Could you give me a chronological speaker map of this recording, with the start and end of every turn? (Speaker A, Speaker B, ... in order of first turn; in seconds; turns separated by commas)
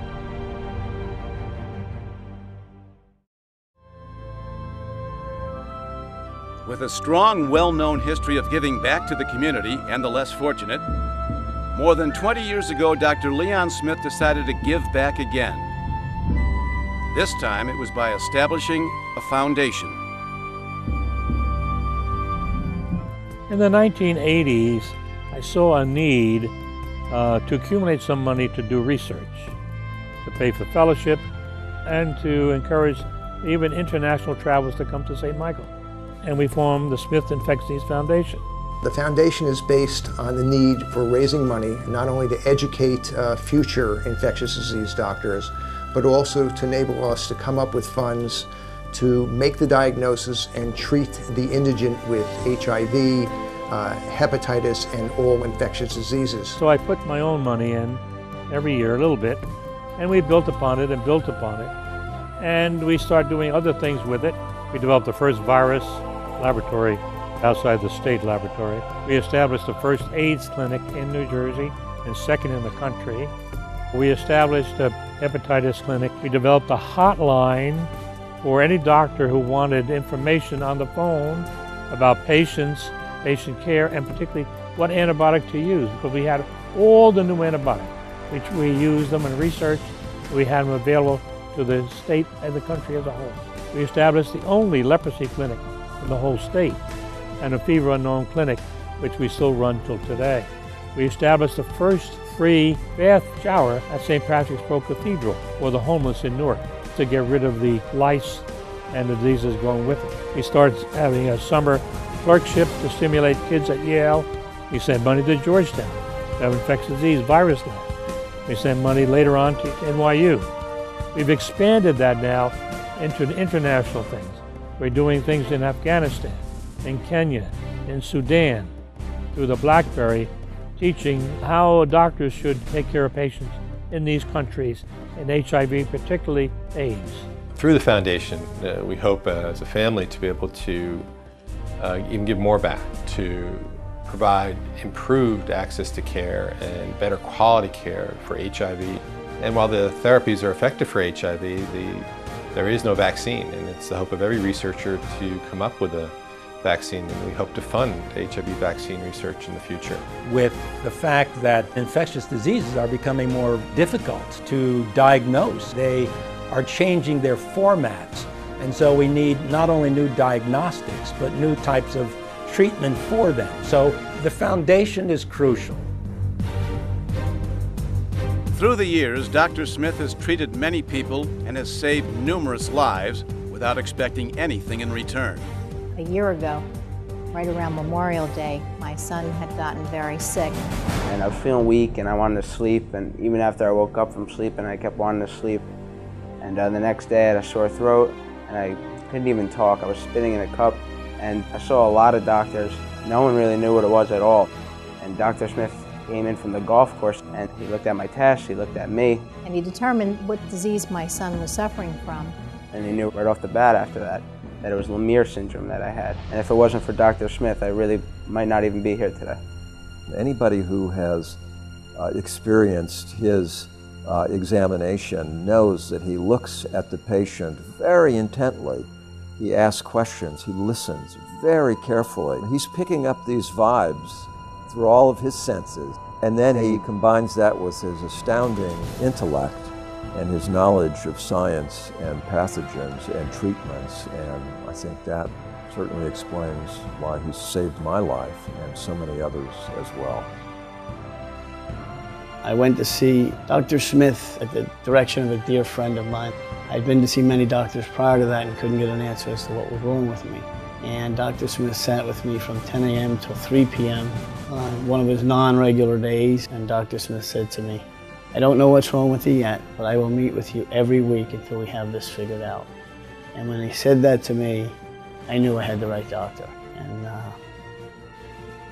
Speaker A: 6.7-10.8, Speaker A: 11.7-15.7, Speaker A: 17.1-20.0, Speaker B: 23.5-26.5, Speaker B: 27.1-29.5, Speaker B: 30.2-31.2, Speaker B: 31.9-35.7, Speaker B: 36.2-38.4, Speaker C: 38.8-56.6, Speaker B: 56.5-59.4, Speaker B: 60.0-61.7, Speaker B: 62.4-73.3, Speaker B: 73.9-77.9, Speaker B: 78.4-96.8, Speaker B: 97.4-117.9, Speaker B: 118.5-120.5, Speaker B: 121.1-128.7, Speaker B: 129.3-137.3, Speaker D: 137.6-141.1, Speaker D: 141.8-160.0, Speaker E: 160.2-175.9, Speaker A: 178.5-185.5, Speaker F: 185.9-186.7, Speaker F: 187.3-190.6, Speaker G: 191.1-195.7, Speaker G: 196.4-209.3, Speaker F: 209.4-212.4, Speaker G: 212.7-219.4, Speaker H: 220.1-221.4, Speaker H: 222.0-250.3, Speaker I: 252.4-272.7, Speaker I: 273.4-274.8, Speaker I: 275.3-277.4